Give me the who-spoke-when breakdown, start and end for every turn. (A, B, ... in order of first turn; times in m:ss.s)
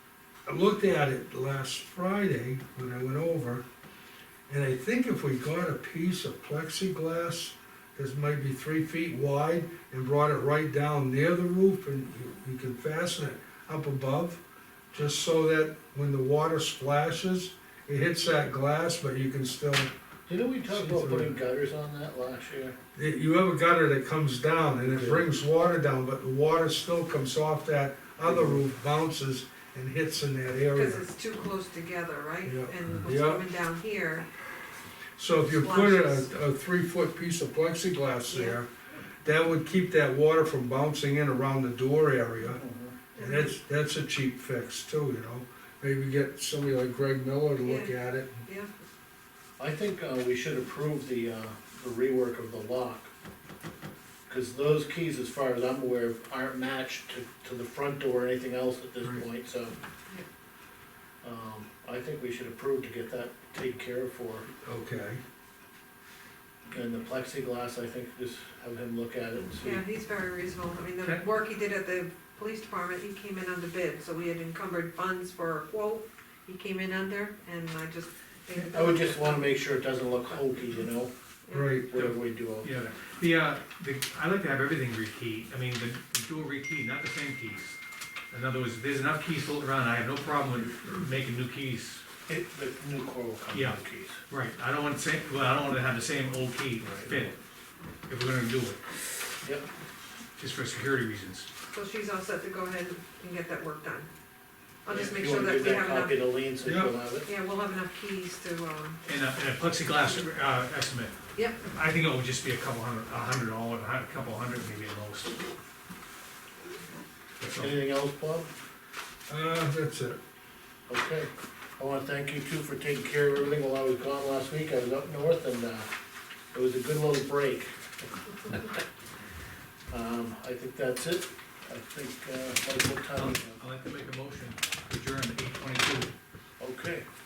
0:00.5-0:03.6 A
0:04.5-0:14.4 A
0:14.9-0:19.9 A
0:20.3-0:22.8 B
0:20.7-0:21.4 A
0:23.0-0:31.1 A
0:24.9-0:25.3 B
0:28.2-0:28.6 B
0:30.7-0:34.3 C
0:32.4-0:33.4 A
0:35.2-0:38.7 A
0:35.4-0:36.3 C
0:38.3-0:38.6 C
0:39.2-0:42.6 A
0:42.4-0:43.0 B
0:43.2-0:43.6 C
0:43.2-0:48.4 A
0:47.6-0:48.7 C
0:49.6-0:53.1 B
0:54.3-0:59.8 B
1:01.2-1:04.5 B
1:04.6-1:05.2 A
1:06.7-1:09.8 B
1:09.6-1:19.4 C
1:18.7-1:21.1 B
1:21.5-1:21.7 C
1:21.5-1:21.9 A
1:21.9-1:22.7 B
1:21.9-1:27.8 D
1:28.3-1:32.0 D
1:32.3-1:34.2 B
1:33.5-1:33.8 D
1:34.3-1:37.4 D
1:36.8-1:37.3 B
1:38.1-1:38.8 D
1:40.4-1:41.5 D
1:41.7-1:44.1 C
1:44.8-1:46.2 C
1:44.9-1:47.3 B
1:46.6-1:47.0 A
1:47.3-1:49.0 C
1:49.0-1:55.4 D
1:51.4-1:51.6 C
1:57.4-1:57.7 D
1:57.6-1:58.5 B
1:59.3-2:00.2 A
2:00.9-2:05.9 B
2:06.5-2:08.8 B
2:09.9-2:13.6 B
2:13.2-2:16.1 D
2:16.6-2:17.1 B